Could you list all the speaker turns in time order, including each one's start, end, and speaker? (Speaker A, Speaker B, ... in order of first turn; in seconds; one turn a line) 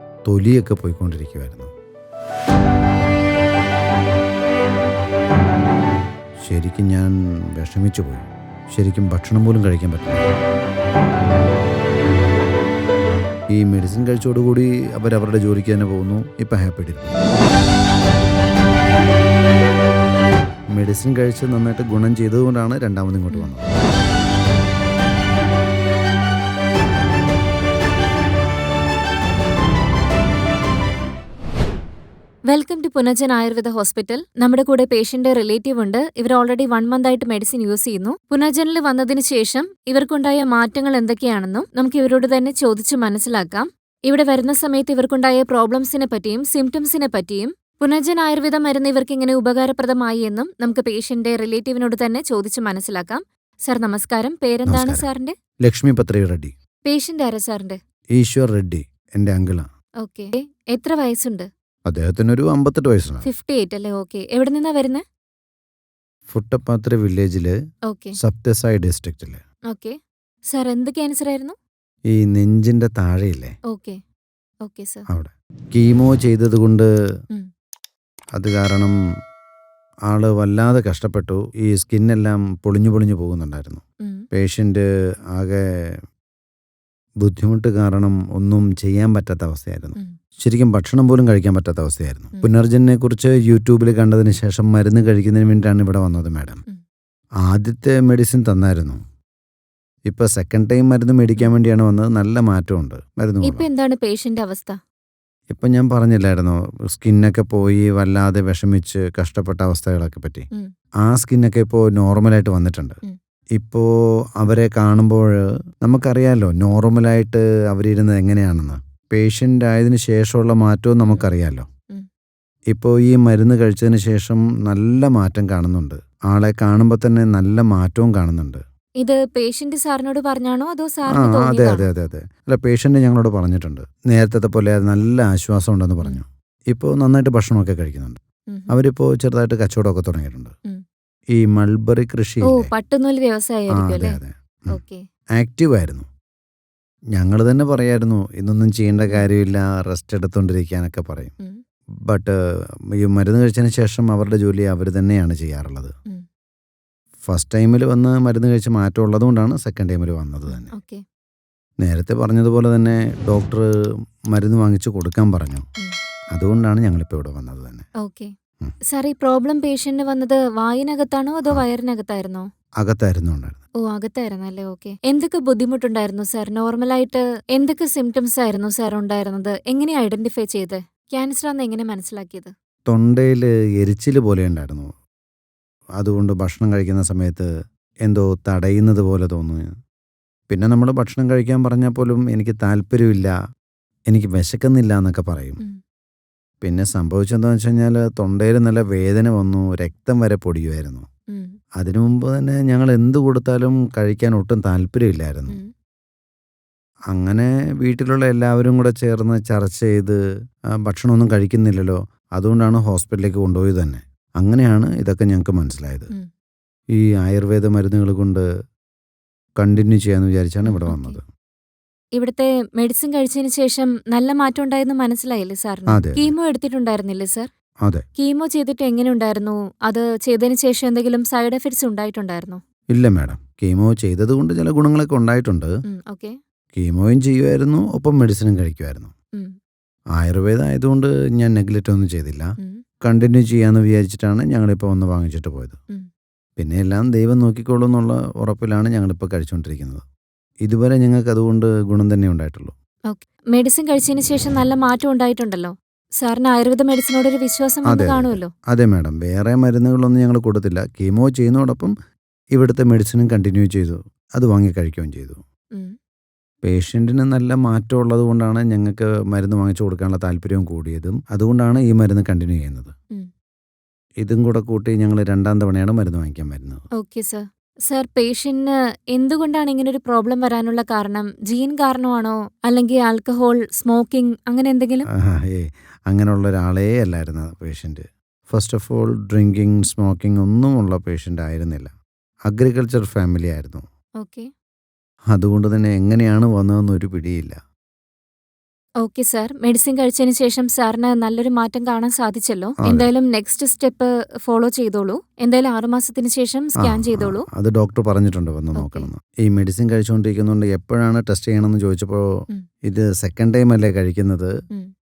Speaker A: 0.3-1.7
Speaker A: 6.4-10.2
Speaker A: 13.5-17.1
Speaker A: 20.8-23.7
Speaker B: 32.5-55.4
Speaker A: 54.7-55.1
Speaker A: 55.7-56.5
Speaker B: 56.9-57.8
Speaker A: 58.2-59.7
Speaker B: 60.0-61.5
Speaker A: 61.9-63.3
Speaker B: 63.2-65.0
Speaker A: 66.3-67.5
Speaker B: 67.9-68.2
Speaker A: 68.2-69.4
Speaker B: 69.7-70.0
Speaker B: 70.5-71.6
Speaker A: 72.1-73.5
Speaker B: 73.7-74.0
Speaker B: 74.6-75.0
Speaker A: 75.1-76.9
Speaker A: 78.4-79.0
Speaker A: 80.1-83.8
Speaker A: 84.3-84.8
Speaker A: 85.3-86.0
Speaker A: 87.2-96.6
Speaker A: 97.5-99.0
Speaker A: 100.1-103.7
Speaker B: 103.4-104.8
Speaker A: 105.5-110.5
Speaker A: 111.0-113.0
Speaker A: 113.6-113.8
Speaker A: 114.4-121.7
Speaker A: 122.7-128.6
Speaker B: 129.0-131.9
Speaker A: 131.1-140.5
Speaker B: 138.5-138.8
Speaker A: 141.4-142.7
Speaker B: 142.4-144.2
Speaker A: 143.7-144.8
Speaker B: 144.7-145.0
Speaker A: 145.4-146.1
Speaker A: 147.1-151.3
Speaker A: 153.0-155.9
Speaker A: 157.3-160.7
Speaker B: 160.5-161.0
Speaker A: 161.8-163.7
Speaker A: 164.3-165.6
Speaker A: 166.3-167.9
Speaker B: 168.0-168.3
Speaker B: 168.9-172.5
Speaker A: 172.8-173.6
Speaker B: 173.8-182.5
Speaker A: 182.9-184.9
Speaker A: 186.0-187.5
Speaker A: 188.0-189.8
Speaker A: 190.5-193.3
Speaker A: 194.1-195.6
Speaker A: 196.6-201.1
Speaker B: 201.3-201.6
Speaker A: 201.8-205.6
Speaker A: 207.1-210.2
Speaker A: 210.9-216.1
Speaker A: 216.9-218.4
Speaker A: 219.6-221.2
Speaker B: 220.6-221.2
Speaker B: 222.2-227.5
Speaker A: 225.9-226.3
Speaker B: 228.2-232.6
Speaker A: 232.9-235.7
Speaker B: 235.9-236.4
Speaker A: 236.8-239.1
Speaker A: 240.2-242.5
Speaker A: 243.0-245.8
Speaker A: 246.6-250.0
Speaker A: 250.6-252.7
Speaker B: 253.1-258.5
Speaker A: 257.9-261.9
Speaker A: 262.5-265.4
Speaker A: 266.6-272.9
Speaker A: 274.2-276.8
Speaker B: 277.0-285.1
Speaker A: 285.1-291.9
Speaker A: 292.5-293.8
Speaker B: 294.2-294.5
Speaker A: 295.3-297.6
Speaker B: 299.0-307.5
Speaker A: 302.8-303.1
Speaker A: 306.8-312.2
Speaker B: 308.8-309.1
Speaker A: 312.9-314.5